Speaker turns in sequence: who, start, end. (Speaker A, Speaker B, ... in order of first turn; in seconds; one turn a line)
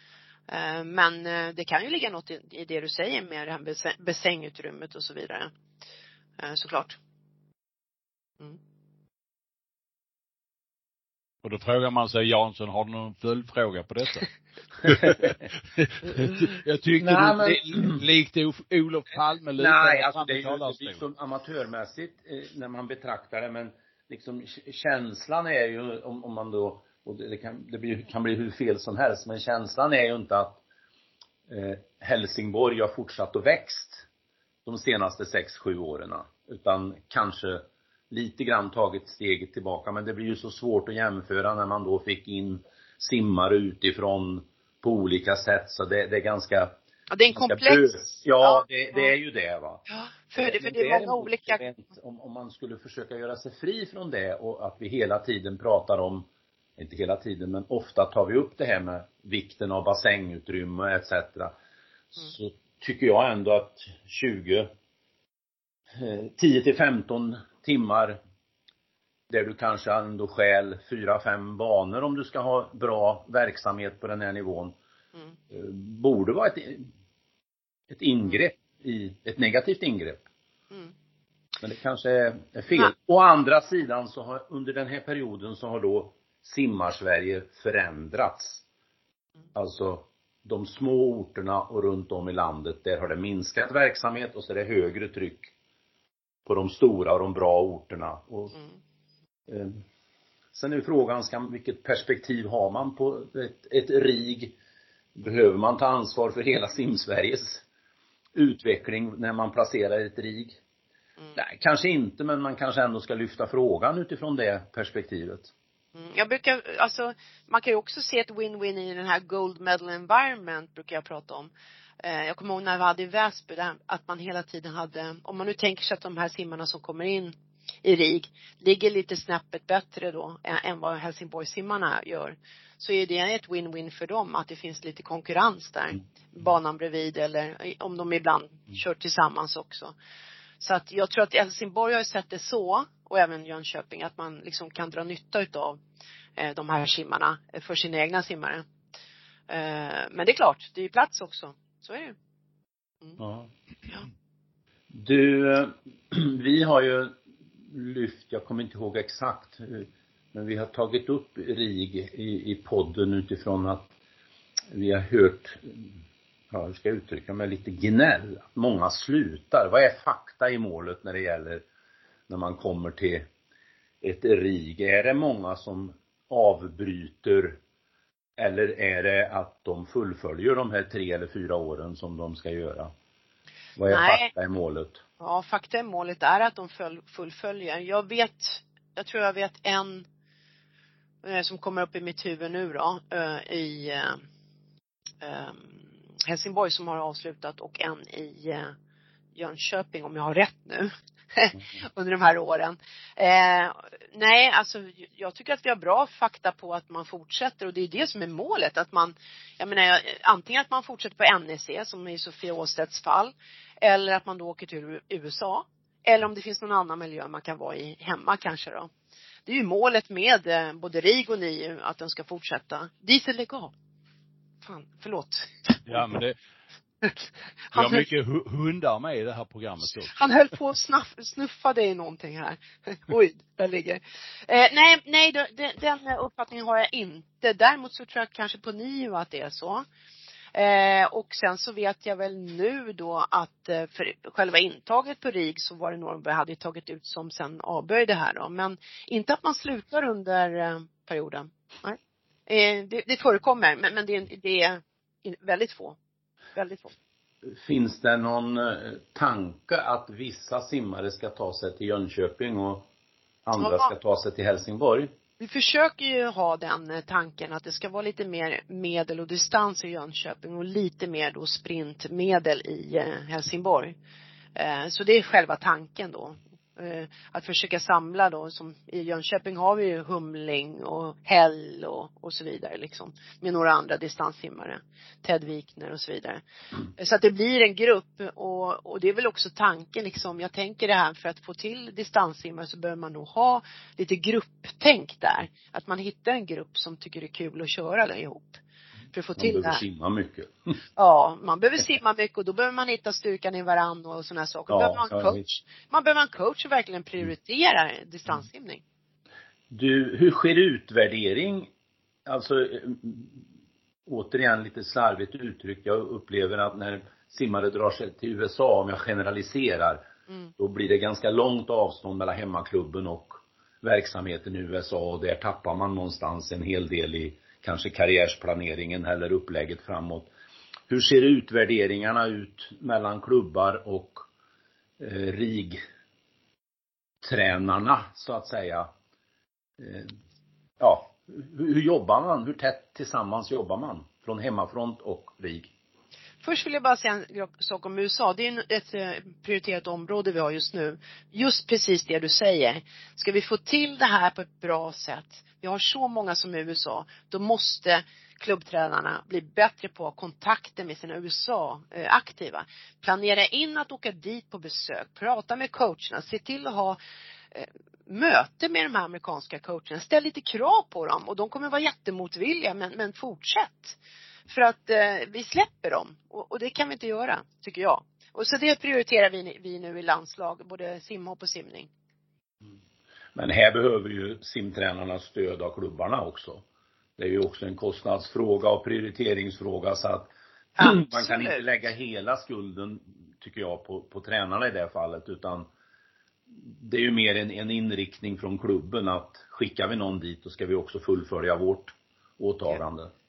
Speaker A: 0.5-5.5
Speaker A: 6.4-7.0
Speaker B: 11.4-14.3
Speaker B: 14.8-21.0
Speaker C: 17.0-18.0
Speaker C: 19.6-30.6
Speaker C: 31.5-34.0
Speaker C: 34.6-46.8
Speaker A: 47.1-49.1
Speaker C: 47.3-49.8
Speaker A: 49.9-51.6
Speaker C: 50.4-61.5
Speaker C: 62.1-64.7
Speaker C: 65.9-68.2
Speaker C: 69.3-74.8
Speaker C: 75.5-76.9
Speaker C: 77.9-80.2
Speaker C: 81.6-88.6
Speaker C: 89.5-95.5
Speaker C: 96.5-98.6
Speaker C: 99.5-99.8
Speaker C: 100.5-104.5
Speaker C: 105.2-107.6
Speaker C: 108.3-110.6
Speaker C: 111.3-115.5
Speaker A: 115.9-139.9
Speaker A: 140.6-145.8
Speaker A: 146.4-148.6
Speaker A: 149.5-152.2
Speaker C: 153.2-153.5
Speaker C: 154.9-157.2
Speaker C: 157.7-163.9
Speaker C: 164.7-165.9
Speaker C: 166.5-171.7
Speaker C: 172.3-173.3
Speaker C: 174.0-177.6
Speaker C: 178.4-182.9
Speaker C: 183.8-185.0
Speaker A: 183.9-184.3
Speaker A: 185.2-190.0
Speaker A: 191.2-194.2
Speaker A: 195.2-198.7
Speaker A: 199.3-218.9
Speaker A: 219.5-223.7
Speaker A: 224.6-226.1
Speaker B: 225.9-226.3
Speaker A: 227.7-228.1
Speaker B: 227.7-230.2
Speaker A: 230.1-239.8
Speaker A: 240.5-255.9
Speaker A: 256.5-256.9
Speaker C: 257.4-262.9
Speaker C: 263.4-265.1
Speaker A: 263.6-263.9
Speaker A: 265.4-273.9
Speaker A: 274.6-286.4
Speaker A: 286.9-298.6
Speaker A: 299.1-299.8
Speaker C: 299.4-300.7
Speaker A: 301.0-308.8
Speaker C: 304.7-305.4
Speaker C: 309.7-311.7
Speaker C: 312.2-313.4
Speaker C: 314.1-320.0
Speaker C: 320.6-330.3
Speaker C: 330.9-334.2
Speaker C: 335.0-335.8
Speaker C: 337.2-338.9
Speaker C: 339.8-340.1
Speaker C: 340.8-345.7
Speaker A: 346.4-367.0
Speaker A: 367.5-381.9
Speaker C: 383.3-386.6
Speaker C: 387.2-395.7
Speaker A: 390.8-391.6
Speaker C: 396.6-403.1